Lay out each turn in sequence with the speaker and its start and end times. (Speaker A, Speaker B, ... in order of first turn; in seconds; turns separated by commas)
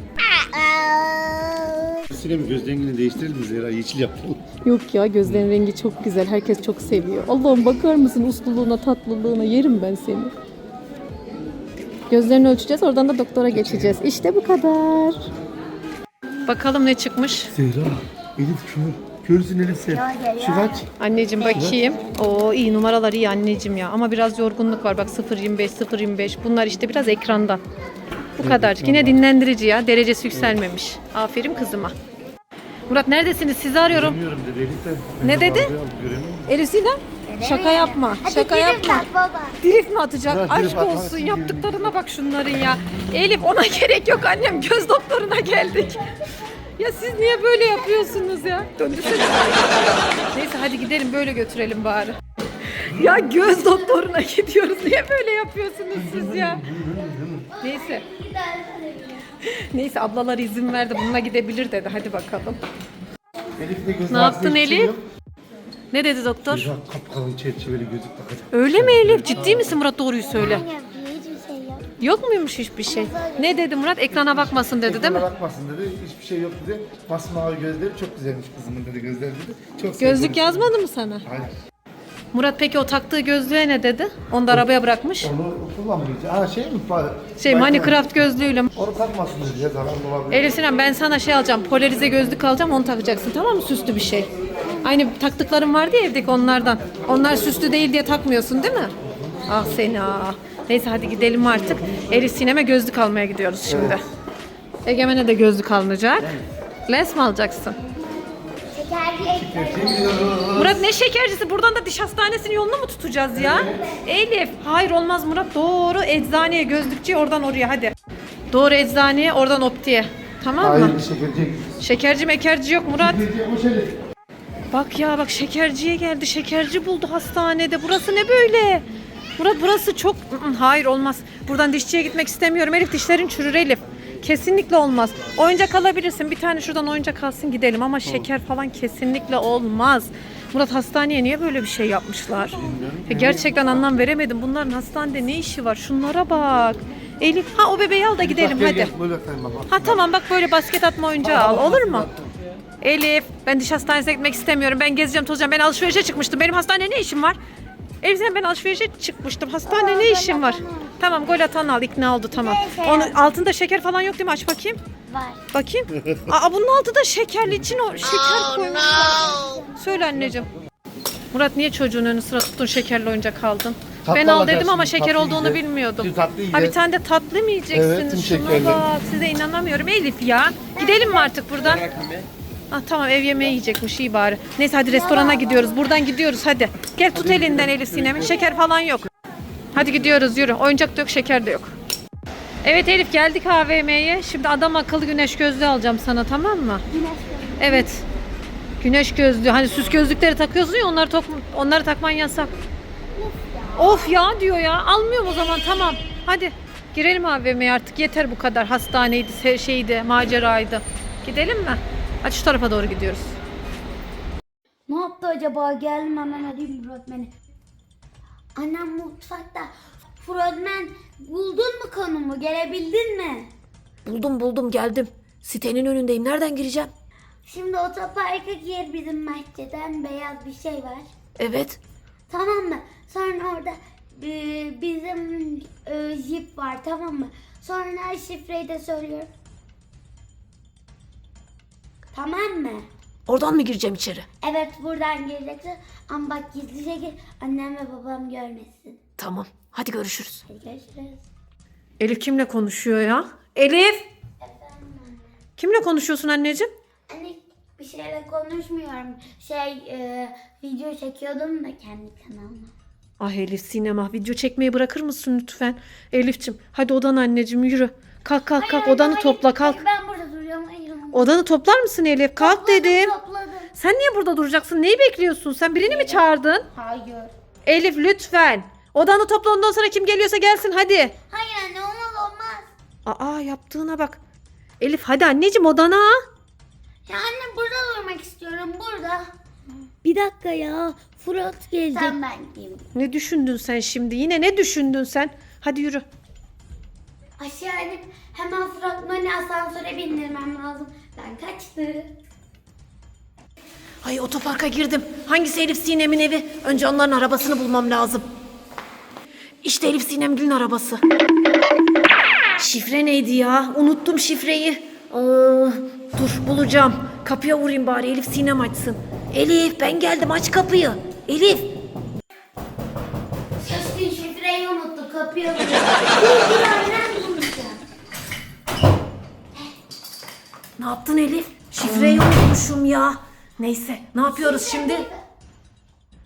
Speaker A: 0.3-2.0, Speaker B: 2.1-4.4, Speaker C: 4.6-10.3, Speaker C: 12.1-15.2, Speaker B: 13.5-14.0, Speaker C: 16.4-17.5, Speaker B: 17.5-20.8, Speaker A: 19.9-22.4, Speaker C: 21.0-27.6, Speaker C: 28.4-31.9, Speaker B: 28.4-29.2, Speaker C: 32.9-34.2, Speaker B: 33.9-36.5, Speaker C: 35.2-35.7, Speaker C: 36.5-39.0, Speaker A: 37.2-39.6, Speaker C: 39.6-46.0, Speaker B: 40.3-41.9, Speaker C: 46.8-52.2, Speaker C: 52.8-56.7, Speaker B: 56.0-57.5, Speaker A: 56.9-59.3, Speaker C: 57.6-58.0, Speaker C: 59.4-62.6, Speaker B: 63.6-65.0, Speaker C: 64.1-64.9, Speaker C: 65.9-66.7, Speaker B: 66.5-69.8, Speaker C: 68.5-70.6, Speaker A: 69.3-69.6, Speaker A: 70.2-71.9, Speaker C: 72.0-75.3, Speaker A: 72.9-73.6, Speaker B: 74.6-80.7, Speaker C: 80.0-81.3, Speaker B: 81.3-81.5, Speaker C: 82.3-85.3, Speaker B: 85.2-88.0, Speaker C: 87.4-88.7, Speaker B: 88.7-90.5, Speaker C: 90.3-94.3, Speaker C: 94.8-98.9, Speaker C: 99.5-104.0, Speaker B: 103.7-104.0, Speaker C: 104.8-107.8, Speaker A: 108.7-110.5, Speaker B: 109.4-110.8, Speaker C: 110.5-117.9, Speaker B: 113.4-113.8, Speaker C: 118.5-121.0, Speaker B: 120.6-121.7, Speaker C: 121.8-123.3, Speaker B: 123.0-123.9, Speaker C: 124.7-128.8, Speaker C: 129.4-148.9, Speaker B: 142.6-143.6, Speaker B: 148.2-150.0, Speaker C: 149.7-152.1, Speaker B: 151.2-152.3, Speaker C: 152.8-157.4, Speaker C: 158.0-164.8, Speaker A: 159.7-161.0, Speaker A: 162.3-163.2, Speaker A: 165.1-165.4, Speaker C: 165.5-170.5, Speaker A: 168.3-169.8, Speaker C: 171.3-181.9, Speaker B: 174.0-176.8, Speaker B: 177.7-178.8, Speaker A: 180.7-181.3, Speaker C: 182.7-189.1, Speaker A: 184.8-185.8, Speaker B: 187.2-187.8, Speaker C: 189.7-191.7, Speaker C: 192.6-196.8, Speaker A: 196.9-197.9, Speaker C: 197.6-198.0, Speaker C: 198.8-202.5, Speaker A: 203.1-204.2, Speaker C: 203.8-213.4, Speaker A: 205.2-206.2, Speaker A: 214.9-217.3, Speaker A: 218.6-223.5, Speaker C: 224.0-226.9, Speaker A: 227.4-231.1, Speaker C: 231.4-231.8, Speaker A: 232.3-239.3, Speaker A: 242.1-242.9, Speaker C: 243.3-244.2, Speaker A: 244.4-249.0, Speaker C: 249.2-250.4, Speaker A: 250.5-251.2, Speaker C: 252.0-254.0, Speaker A: 254.4-255.3, Speaker C: 255.6-256.7, Speaker A: 257.1-262.7, Speaker C: 263.2-269.8, Speaker A: 268.6-271.4, Speaker C: 271.1-273.1, Speaker A: 272.4-273.7, Speaker C: 273.7-276.7, Speaker A: 275.8-277.3, Speaker C: 277.6-281.1, Speaker A: 281.3-282.7, Speaker C: 283.1-284.2, Speaker C: 284.8-286.2, Speaker A: 287.1-289.2, Speaker A: 290.0-292.9, Speaker C: 292.9-296.0, Speaker A: 297.4-302.1, Speaker C: 304.0-308.2, Speaker C: 309.6-311.0, Speaker C: 312.6-321.7, Speaker A: 323.6-327.8, Speaker C: 330.8-335.1, Speaker A: 334.3-335.2